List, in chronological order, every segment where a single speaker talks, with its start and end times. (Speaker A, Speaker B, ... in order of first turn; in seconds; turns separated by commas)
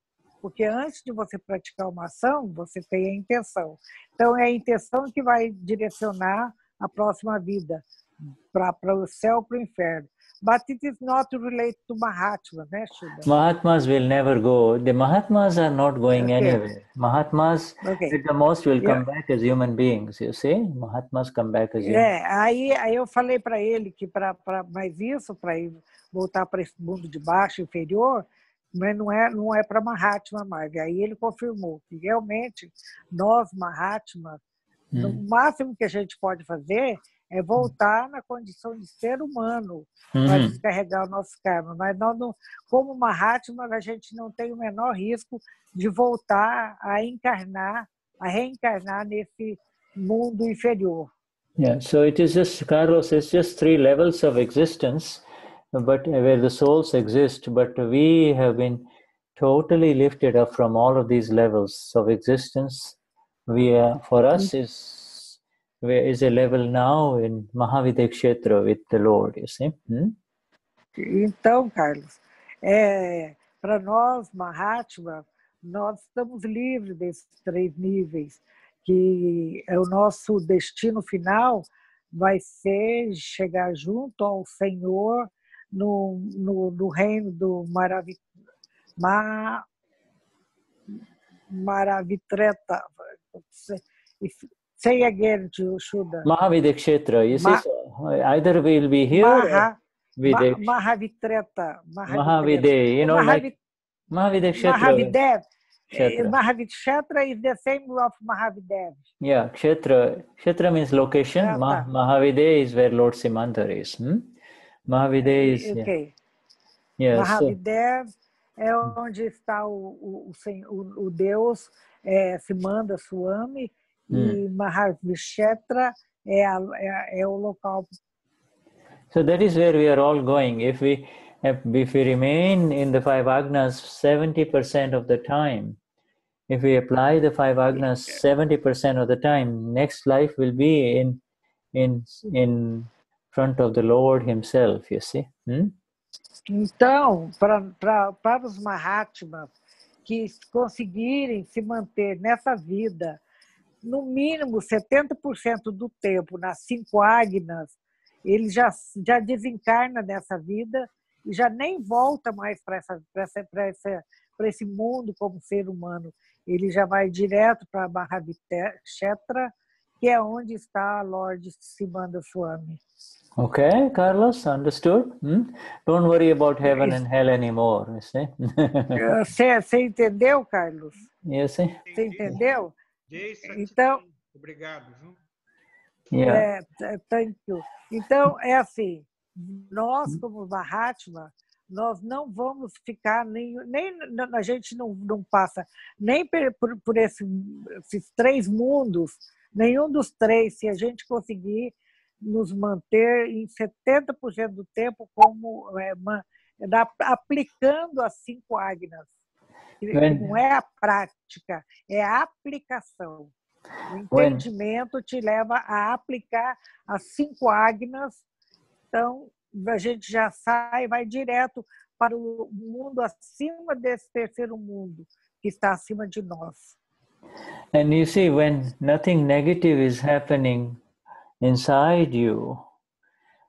Speaker A: 0.4-13.3, Speaker B: 13.2-22.1, Speaker A: 16.1-16.6, Speaker A: 17.8-18.2, Speaker A: 21.8-28.3, Speaker A: 28.8-34.4, Speaker B: 34.9-35.2, Speaker A: 35.0-51.1, Speaker B: 40.1-40.6, Speaker B: 51.6-70.2, Speaker A: 71.0-88.2, Speaker A: 89.0-89.7, Speaker A: 91.5-96.3, Speaker B: 96.2-100.7, Speaker A: 97.4-97.6, Speaker A: 99.1-103.5, Speaker B: 102.1-103.5, Speaker B: 104.1-105.1, Speaker A: 104.6-109.0, Speaker B: 105.9-106.4, Speaker B: 109.2-114.3, Speaker A: 111.4-111.9, Speaker B: 114.9-115.9, Speaker A: 115.3-116.1, Speaker B: 117.0-117.5, Speaker A: 117.1-127.9, Speaker B: 124.1-124.4, Speaker B: 129.1-135.8, Speaker B: 136.5-141.2, Speaker B: 141.7-145.8, Speaker A: 146.5-149.5, Speaker A: 150.1-153.2, Speaker A: 153.8-157.8, Speaker A: 158.3-172.8, Speaker B: 173.4-179.1, Speaker A: 176.7-177.0, Speaker A: 179.0-181.1, Speaker B: 181.2-182.4, Speaker C: 181.8-182.5, Speaker A: 182.0-182.7, Speaker C: 183.1-185.2, Speaker A: 183.4-184.0, Speaker B: 186.1-186.5, Speaker A: 186.3-209.1, Speaker A: 209.8-213.3, Speaker B: 209.9-210.3, Speaker A: 213.9-218.2, Speaker B: 214.1-214.4, Speaker A: 218.9-226.8, Speaker B: 227.7-230.8, Speaker B: 231.4-232.6